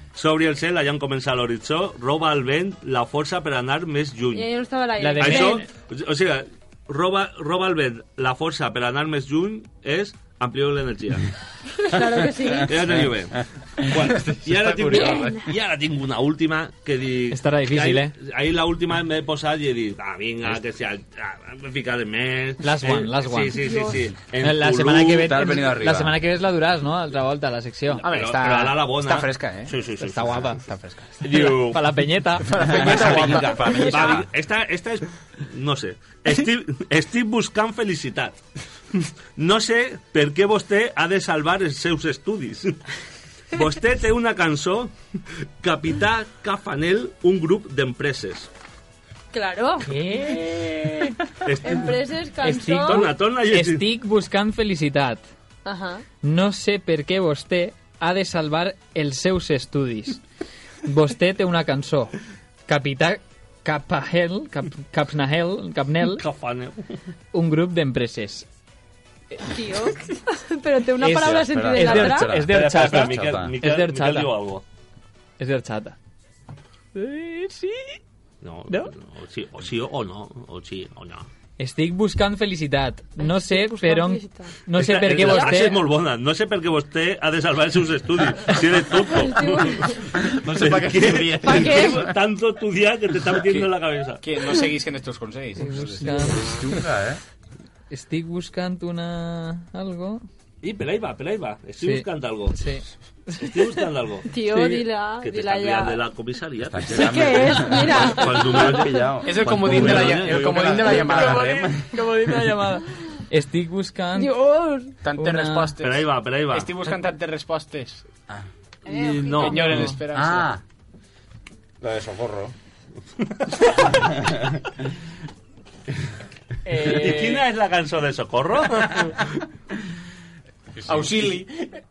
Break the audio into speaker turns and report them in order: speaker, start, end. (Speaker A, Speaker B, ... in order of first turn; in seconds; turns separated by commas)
Speaker A: 0.1-4.5, Speaker B: 4.3-5.6, Speaker C: 5.0-5.7, Speaker A: 5.2-11.3, Speaker B: 11.8-13.0, Speaker A: 12.7-25.4, Speaker D: 12.8-13.1, Speaker D: 13.8-15.4, Speaker B: 14.9-15.4, Speaker C: 17.3-18.1, Speaker C: 22.6-23.6, Speaker B: 23.6-24.0, Speaker C: 24.4-28.0, Speaker D: 25.1-26.2, Speaker E: 27.9-31.2, Speaker A: 28.1-30.5, Speaker C: 31.2-33.3, Speaker A: 31.2-31.8, Speaker E: 32.4-34.1, Speaker D: 32.6-34.3, Speaker A: 33.9-38.4, Speaker A: 39.4-42.8, Speaker A: 43.5-44.9, Speaker A: 45.6-48.5, Speaker B: 49.3-49.9, Speaker C: 49.8-51.2, Speaker A: 51.4-52.1, Speaker B: 51.6-53.1, Speaker C: 52.4-55.2, Speaker A: 52.8-53.8, Speaker B: 55.6-56.0, Speaker C: 56.2-60.2, Speaker C: 60.8-62.1, Speaker C: 62.7-66.2, Speaker A: 66.0-67.0, Speaker C: 67.3-68.5, Speaker B: 69.4-72.3, Speaker C: 71.0-74.3, Speaker D: 71.2-73.5, Speaker A: 72.5-74.6, Speaker C: 75.4-76.0, Speaker C: 76.9-78.0, Speaker A: 78.4-81.2, Speaker C: 81.6-85.8, Speaker B: 83.2-84.5, Speaker A: 84.7-90.0, Speaker B: 85.2-85.7, Speaker B: 89.2-90.1, Speaker D: 90.2-92.1, Speaker A: 90.5-94.6, Speaker B: 91.4-92.1, Speaker E: 94.2-96.5, Speaker C: 95.6-96.5, Speaker D: 96.5-97.2, Speaker C: 97.9-100.2, Speaker A: 100.6-102.5, Speaker C: 101.8-103.6, Speaker A: 103.3-104.3, Speaker B: 104.3-106.0, Speaker C: 104.4-104.8, Speaker A: 105.2-110.9, Speaker D: 106.6-112.5, Speaker B: 106.9-109.0, Speaker E: 109.2-111.5, Speaker C: 111.0-114.3, Speaker B: 114.2-115.0, Speaker E: 115.0-118.0, Speaker C: 115.2-115.7, Speaker A: 115.8-116.7, Speaker D: 118.3-120.6, Speaker B: 118.9-119.6, Speaker E: 119.2-120.5, Speaker C: 119.3-120.0, Speaker D: 121.8-122.5, Speaker D: 123.9-124.6, Speaker C: 126.6-127.4, Speaker A: 126.8-129.2, Speaker D: 130.8-131.5, Speaker E: 130.8-131.5